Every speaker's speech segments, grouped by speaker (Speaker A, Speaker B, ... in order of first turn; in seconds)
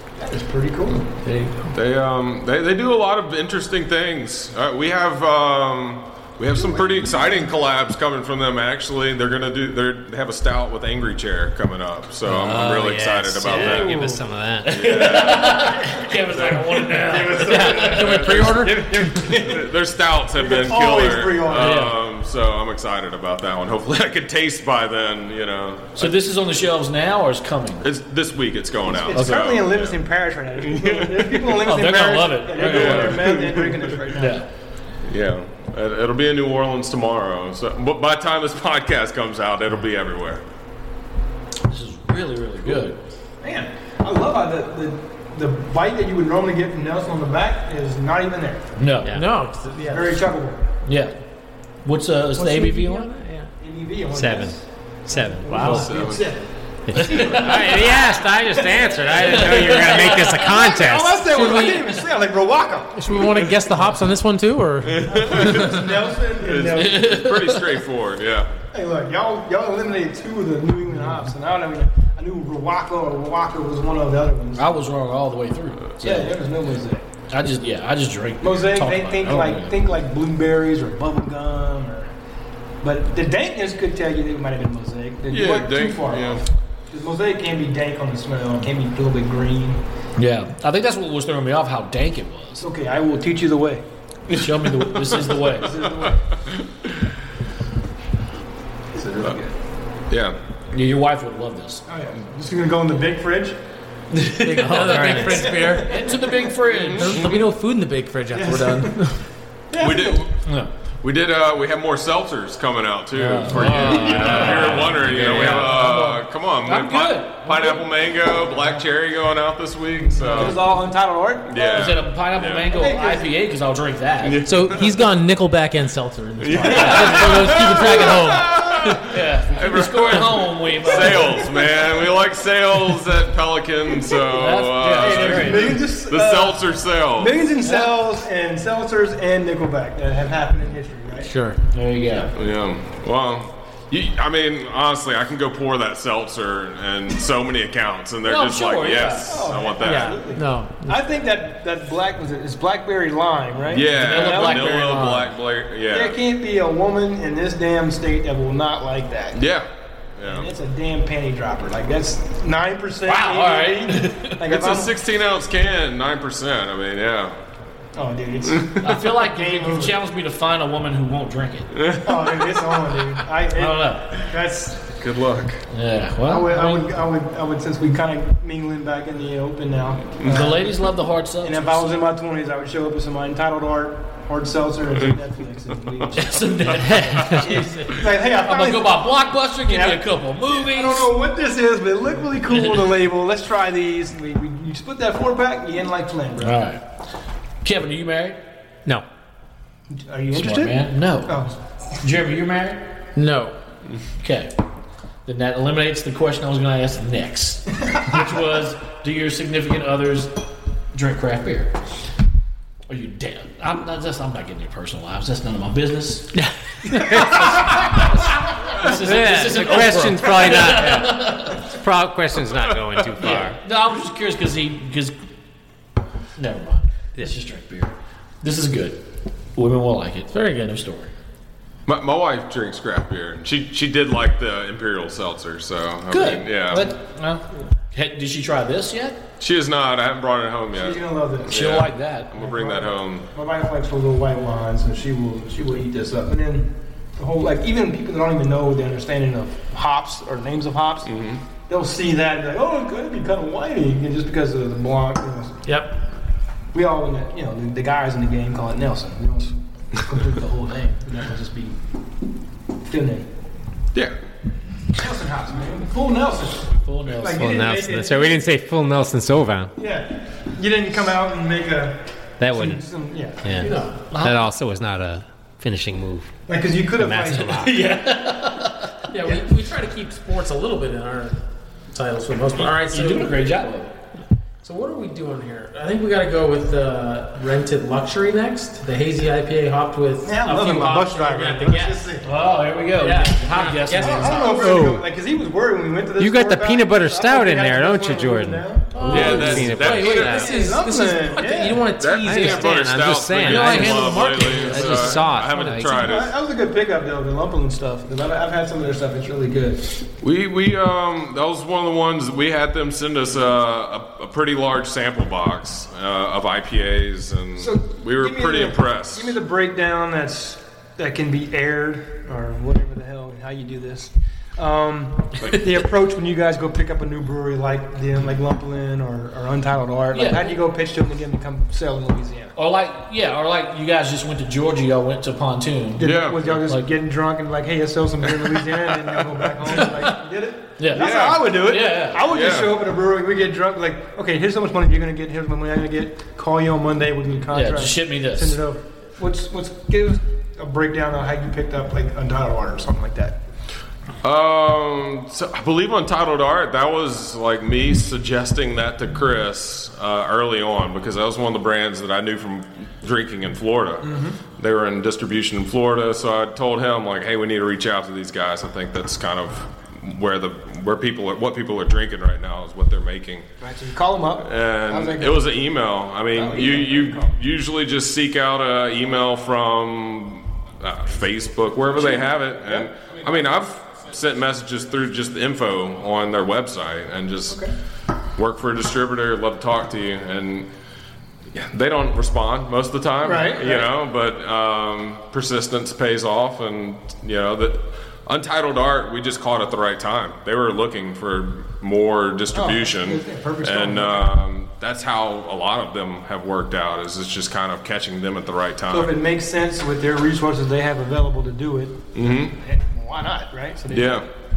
Speaker A: 0.2-1.1, 13.5-14.1, 17.0-19.7, 20.4-21.9, 28.9-34.4, 43.4-48.8, 49.7-50.7, 53.6-63.2, 65.1-67.3, 68.7-74.7, 76.0-77.1, 78.4-82.1, 82.8-89.8, 92.6-93.8, 95.4-96.3, 98.9-99.5, 101.9-103.6, 105.0-106.5, 108.3-109.1, 109.7-110.2, 113.9-114.3, 120.1-122.0, 122.7-123.3, 130.9-131.7, 134.9-141.3, 149.3-154.9, 155.9-159.4, 160.2-164.9, 167.9-170.0, 172.0-174.9, 176.2-180.8, 181.4-186.8, 187.3-196.7, 199.9-201.6, 207.9-208.2, 236.1-237.4, 240.7-241.7, 242.3-251.1, 251.7-255.6, 256.7-261.8, 262.9-263.3, 264.9-268.5, 269.8-273.8, 276.5-277.8, 290.2-292.3, 293.9-299.4, 300.3-301.9, 305.9-309.9, 317.6-332.6, 336.0-353.4, 364.0-364.4, 373.6-375.6, 376.3-377.3, 381.9-382.9, 393.2-393.9, 402.5-404.3, 408.9-414.3
Speaker B: 1.3-1.5, 17.4-19.1, 49.0-50.3, 52.4-53.5, 55.5-55.9, 61.2-62.1, 63.0-66.0, 104.4-106.0, 106.9-109.2, 113.6-114.9, 124.5-129.1, 141.2-141.6, 149.8-151.0, 203.2-203.6, 230.3-230.9, 255.7-256.0, 273.6-274.1, 279.1-281.4, 281.9-283.5, 284.6-292.2, 293.0-294.5, 298.9-305.8
Speaker C: 1.7-14.0, 14.7-17.3, 17.9-18.6, 19.3-26.1, 27.8-30.0, 30.6-31.6, 32.5-34.0, 35.0-40.4, 55.5-56.3, 57.0-57.6, 64.8-65.8, 66.4-68.5, 85.3-86.4, 94.3-95.5, 96.5-96.9, 100.1-100.4, 106.7-107.3, 109.8-110.4, 111.0-120.7, 121.5-122.7, 124.2-124.9, 126.4-137.4, 142.3-150.2, 153.7-156.2, 159.3-160.5, 164.5-167.4, 168.5-168.8, 171.7-172.8, 174.9-175.6, 186.9-187.4, 231.9-236.9, 239.4-243.3, 251.1-251.4, 299.1-300.5, 302.0-306.3, 310.2-319.4, 336.0-336.6, 338.3-339.4, 340.9-341.6, 342.3-342.8, 354.2-373.5, 374.4-387.6, 388.4-390.7, 391.5-409.2, 412.1-412.6, 413.9-414.3
Speaker D: 12.2-14.8, 54.1-55.6, 56.9-61.2, 113.7-115.8, 186.8-187.4, 216.4-217.5, 218.8-223.6, 267.3-269.7, 272.4-272.8, 273.4-276.3, 277.0-277.8, 294.4-295.1, 296.2-300.6, 302.1-306.1
Speaker E: 14.7-18.3, 21.6-22.0, 25.9-27.9, 29.1-29.5, 31.6-33.4, 34.1-34.5, 41.7-43.0, 48.8-49.2, 50.9-51.1, 51.8-53.1, 57.0-57.5, 59.2-60.3, 66.7-67.8, 74.5-76.4, 77.3-79.9, 90.2-92.7, 94.3-95.9, 100.7-101.8, 104.1-107.5, 110.5-110.7, 113.1-117.9, 120.3-120.6, 121.6-124.5, 126.6-127.4, 129.1-131.6, 134.1-135.9, 137.6-138.0, 141.7-142.3, 148.2-149.5, 153.7-155.4, 163.0-164.4, 168.8-171.7, 173.5-174.2, 175.7-176.9, 180.3-182.0, 186.2-191.1, 192.5-193.0, 196.4-197.0, 197.6-198.4, 200.3-201.5, 202.0-203.0, 204.2-204.5, 205.2-210.4, 210.9-211.8, 212.9-216.4, 217.0-221.7, 223.2-225.2, 226.4-231.1, 236.1-236.8, 237.9-239.2, 241.5-242.3, 266.8-267.6, 274.1-274.4, 277.6-279.1, 282.6-283.9, 292.2-294.8, 299.1-299.6, 330.1-330.6, 332.6-336.9, 339.7-340.2, 340.8-342.2, 347.5-348.6